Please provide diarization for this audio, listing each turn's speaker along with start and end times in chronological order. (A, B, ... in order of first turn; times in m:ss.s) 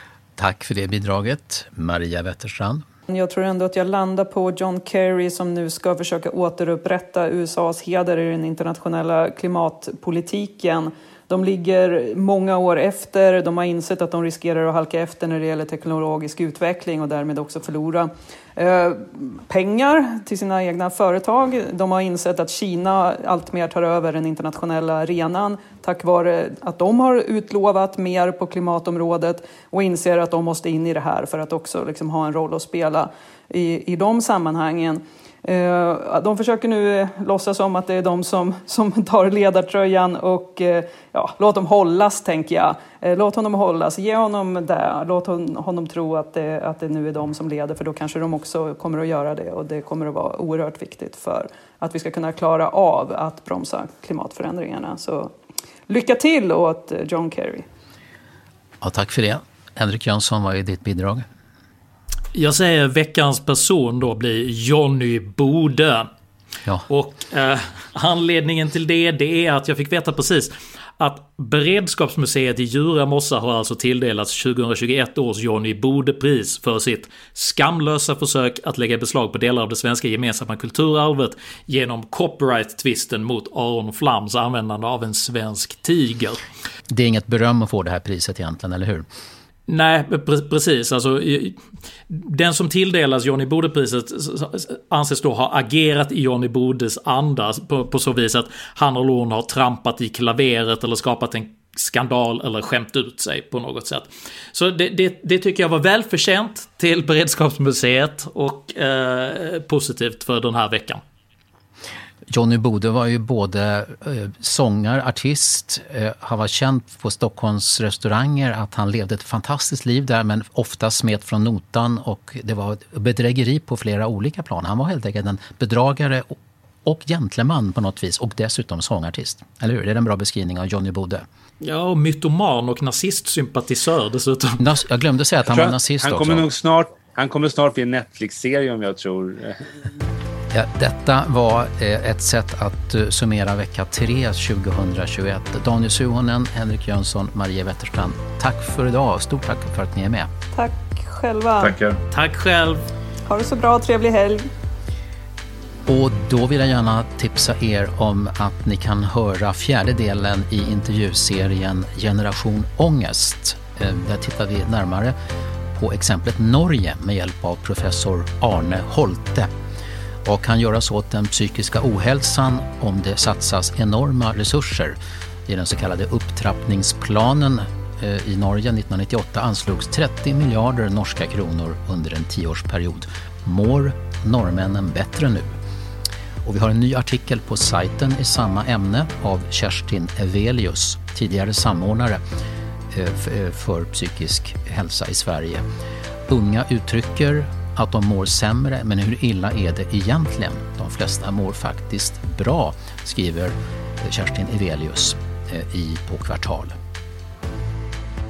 0:00.4-0:02.8 A
0:03.1-0:55.3 B
0:55.9-0:57.6 B
0:58.8-1:01.3 A
1:02.3-1:06.1 C
1:06.9-1:26.4 C
1:26.9-1:29.0 A
1:29.7-1:31.6 C
1:32.1-1:51.0 C
1:52.3-2:11.3 A
2:11.6-2:14.6 C
2:14.6-2:16.5 A
2:15.5-2:19.7 D
2:20.5-2:30.3 A
2:30.5-2:31.7 B
2:31.6-2:32.0 D
2:32.1-2:32.8 C
2:33.3-2:34.4 B
2:35.9-2:45.2 A
2:45.7-2:49.5 A
2:50.2-3:05.6 A
3:06.4-3:12.2 A
3:12.9-3:15.6 A
3:16.3-3:26.8 A